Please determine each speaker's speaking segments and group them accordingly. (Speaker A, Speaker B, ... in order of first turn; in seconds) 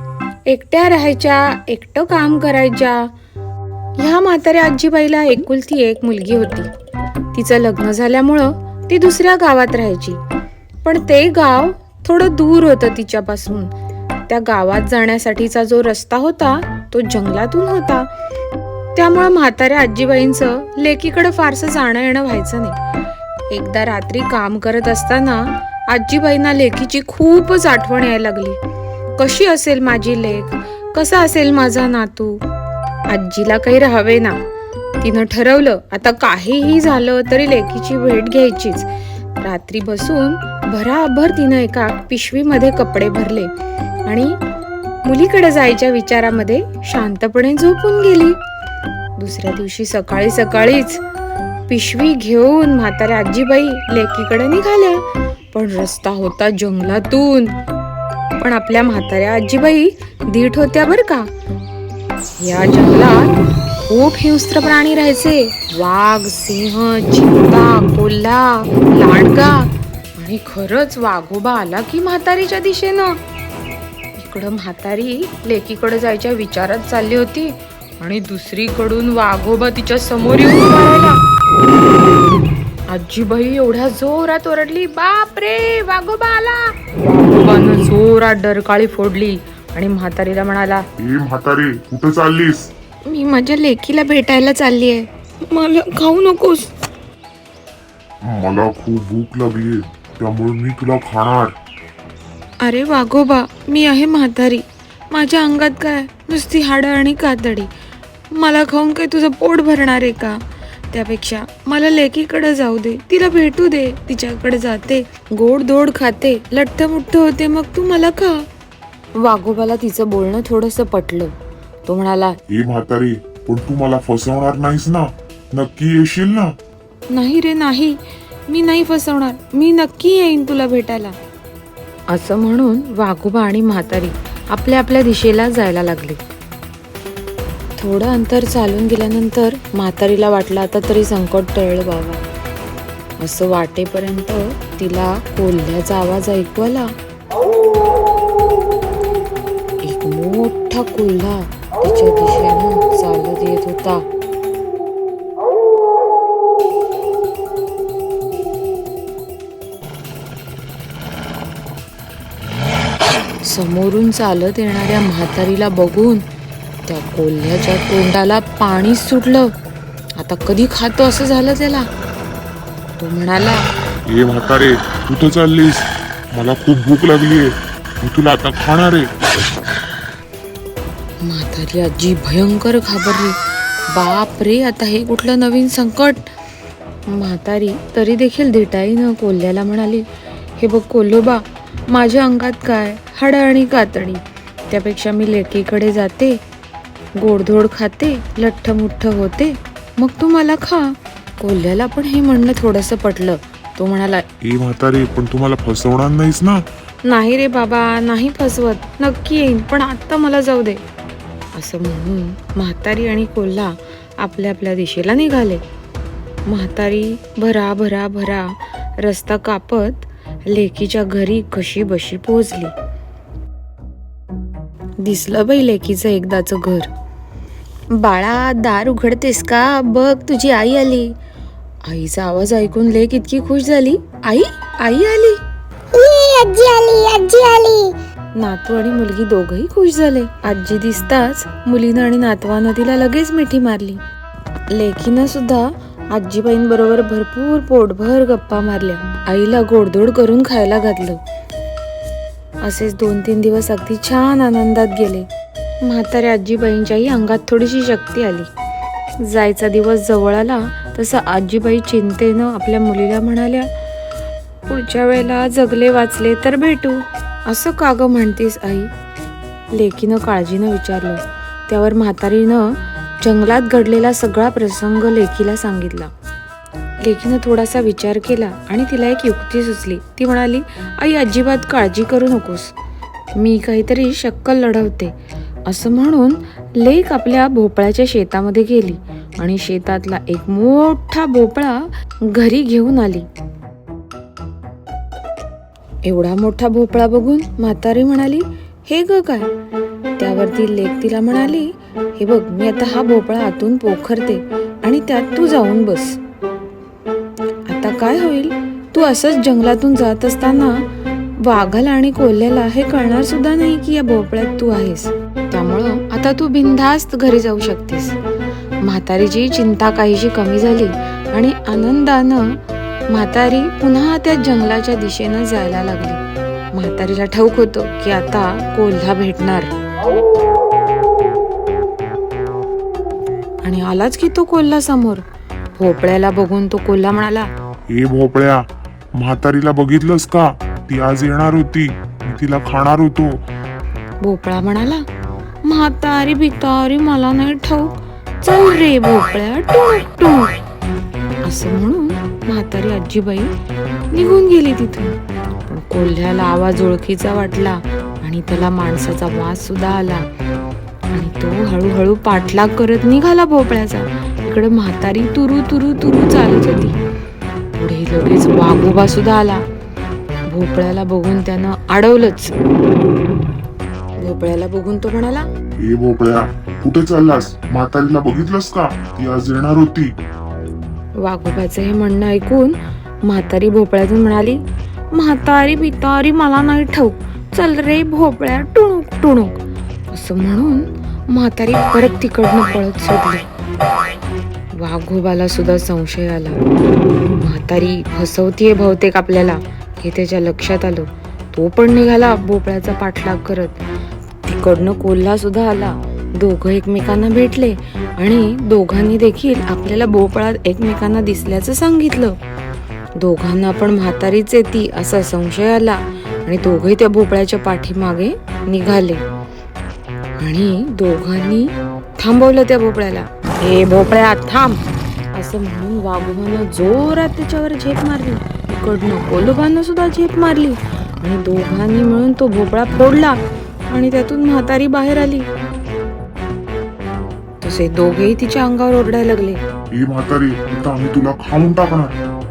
Speaker A: 0.5-3.1, 4.0-6.7, 7.3-10.2, 10.8-13.7, 14.3-18.1, 18.9-22.8, 23.5-28.6, 29.2-32.4, 33.1-34.4, 35.0-38.9, 39.4-43.5, 44.1-44.4, 45.0-48.4, 49.2-51.0, 51.7-57.5, 58.4-61.3, 62.4-63.4, 63.9-73.2, 74.2-81.2, 82.9-90.8, 93.1-96.7, 102.6-107.7, 108.3-118.5, 119.2-121.3, 121.8-122.4, 127.1-131.2, 132.1-136.2, 137.8-142.2, 143.2-146.9, 149.8-154.1, 163.4-166.2, 166.9-169.5, 170.2-171.9, 173.0-173.7, 181.2-183.4, 183.9-186.3, 187.1-190.1, 190.6-196.4, 197.2-204.3, 207.1-210.8, 211.5-215.6, 216.5-222.7, 225.0-226.9, 227.9-231.1, 231.8-235.4, 238.4-244.0, 244.7-251.2, 252.6-255.3, 255.8-258.5, 259.2-263.7, 264.7-268.9, 269.7-276.1, 277.0-282.7, 283.3-285.1, 285.7-293.3, 296.1-299.5, 300.2-306.2, 307.7-310.8, 311.4-318.2, 318.8-322.6, 323.1-326.2, 326.7-329.7, 333.6-335.2, 335.8-337.5, 344.2-345.0, 345.6-350.5, 351.4-353.5, 354.1-360.3, 361.1-367.0, 367.8-369.6, 370.5-372.5, 374.2-375.5, 381.2-384.6, 385.1-389.6, 390.1-393.4, 394.7-396.6, 397.4-403.8, 404.4-412.4, 413.2-419.2, 420.4-424.8, 425.3-435.5, 437.6-439.6
Speaker B: 91.0-92.7, 98.2-101.5, 122.5-126.5, 174.1-177.5, 178.0-179.1, 204.4-206.7, 337.9-343.5, 375.8-380.1, 439.9-442.2
Speaker C: 235.9-237.9